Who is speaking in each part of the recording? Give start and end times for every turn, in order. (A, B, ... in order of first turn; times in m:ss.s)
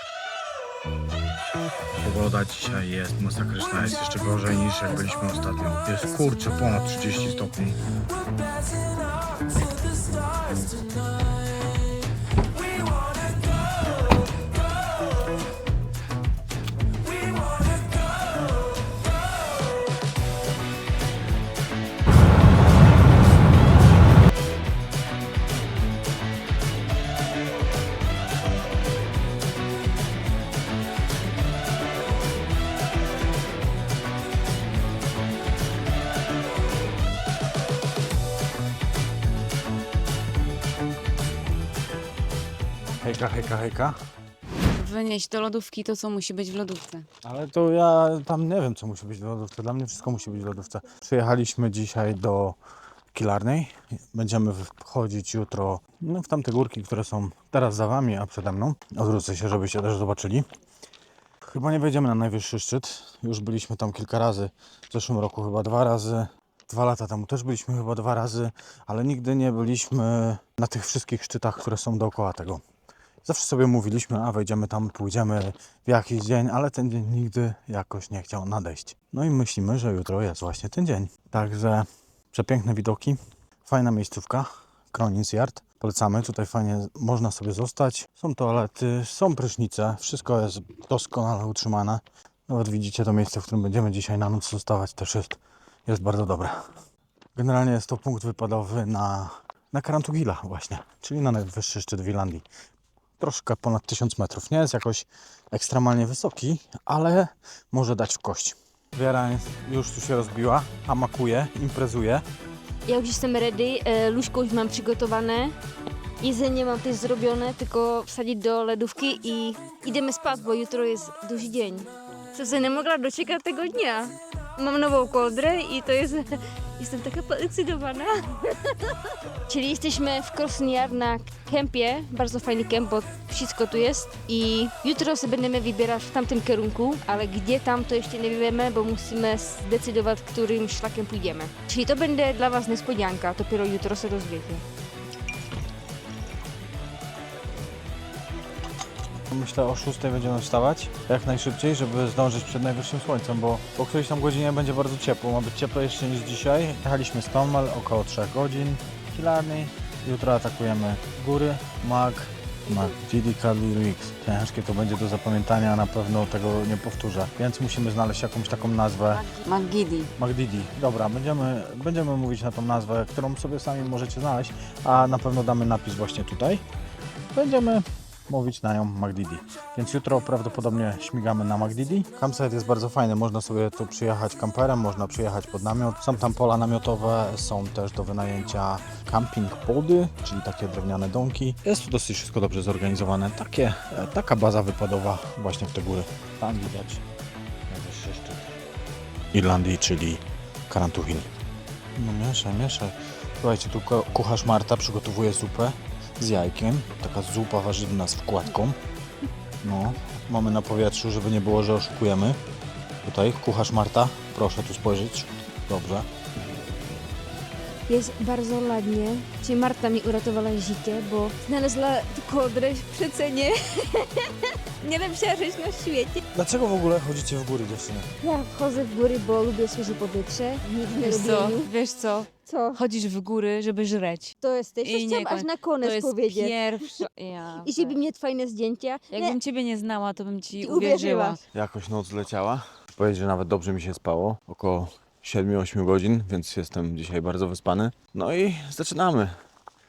0:02.0-0:07.8 A
0:43.0-0:44.0 A
0:44.7-0:47.1 B
0:47.2-0:52.6 A
0:53.1-1:00.5 A
1:01.4-1:12.6 A
1:13.2-1:36.7 A
1:37.4-1:42.4 A
1:43.2-1:52.2 A
1:52.9-1:55.6 C
1:56.2-2:08.7 C
2:09.5-2:24.6 C
2:29.3-2:49.3 A
2:49.4-2:50.1 B
2:50.2-2:56.6 A
2:57.3-3:17.0 A
3:17.7-3:18.6 A
3:19.3-3:21.3 A
3:22.0-3:28.8 A
3:29.6-3:32.4 A
3:33.0-3:36.1 A
3:37.9-3:46.2 C
3:46.3-3:48.1 A
3:48.2-3:51.7 C
3:50.9-3:58.0 B
3:52.4-3:52.8 C
3:54.4-3:57.1 C
3:57.6-3:59.4 C
3:59.1-4:01.4 B
4:00.6-4:01.4 C
4:01.5-4:09.4 A